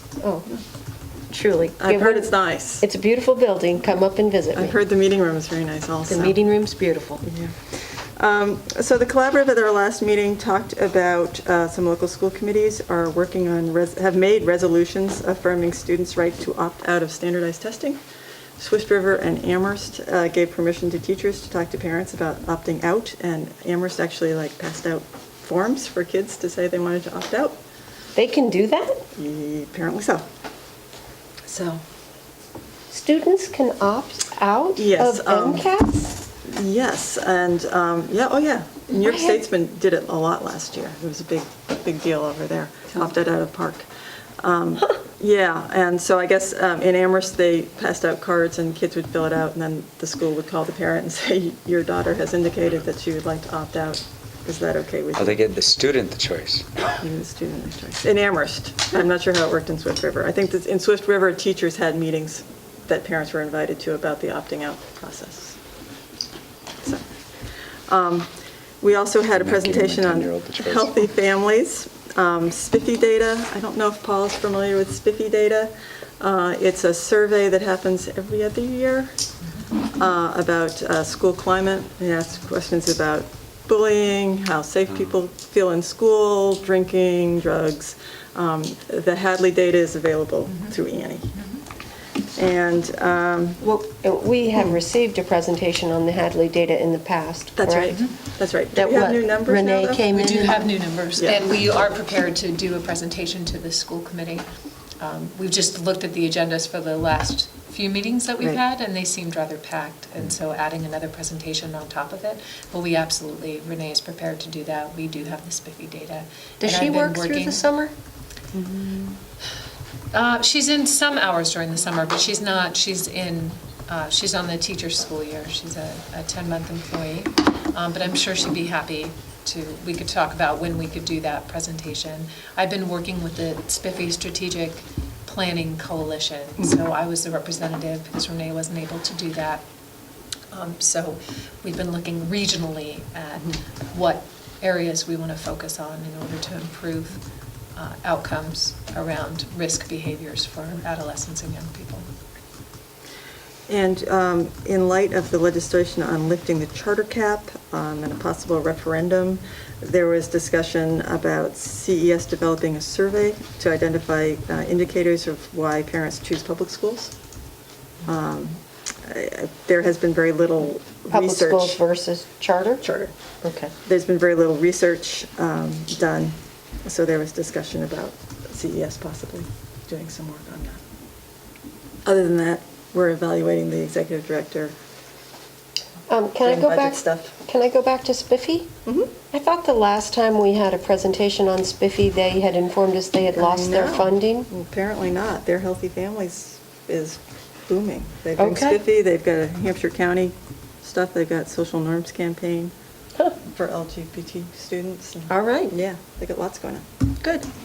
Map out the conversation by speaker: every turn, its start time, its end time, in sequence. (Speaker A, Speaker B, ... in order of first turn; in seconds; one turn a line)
Speaker A: 0.2-0.5
Speaker A: 1.3-4.8
Speaker B: 1.8-2.8
Speaker B: 4.5-6.4
Speaker A: 6.1-7.2
Speaker B: 7.2-7.5
Speaker B: 8.2-18.0
Speaker B: 18.6-27.6
Speaker A: 28.1-29.0
Speaker B: 29.1-30.2
Speaker B: 31.5-31.8
Speaker A: 32.9-36.2
Speaker B: 34.8-35.7
Speaker B: 36.4-43.9
Speaker A: 38.9-39.4
Speaker B: 44.4-55.5
Speaker C: 55.2-56.6
Speaker B: 57.0-65.6
Speaker B: 67.9-68.3
Speaker B: 68.8-79.1
Speaker C: 69.3-70.9
Speaker B: 79.9-91.3
Speaker B: 92.3-93.6
Speaker A: 93.6-98.0
Speaker B: 97.5-100.1
Speaker A: 98.7-100.6
Speaker D: 100.1-104.5
Speaker B: 101.2-101.4
Speaker D: 105.0-117.6
Speaker A: 116.6-117.9
Speaker B: 118.5-119.2
Speaker D: 120.1-139.6
Speaker D: 140.5-147.2
Speaker D: 147.7-152.1
Speaker B: 153.7-167.1
Speaker B: 168.1-171.8
Speaker A: 171.1-172.8
Speaker B: 172.8-173.1
Speaker A: 173.4-173.7
Speaker B: 173.8-180.8
Speaker B: 182.0-184.7
Speaker A: 186.1-188.7
Speaker B: 186.4-187.3
Speaker B: 188.8-189.1
Speaker A: 189.3-194.5
Speaker B: 193.3-202.7
Speaker A: 198.4-198.8
Speaker B: 203.4-206.8
Speaker A: 205.3-205.7
Speaker A: 207.2-207.4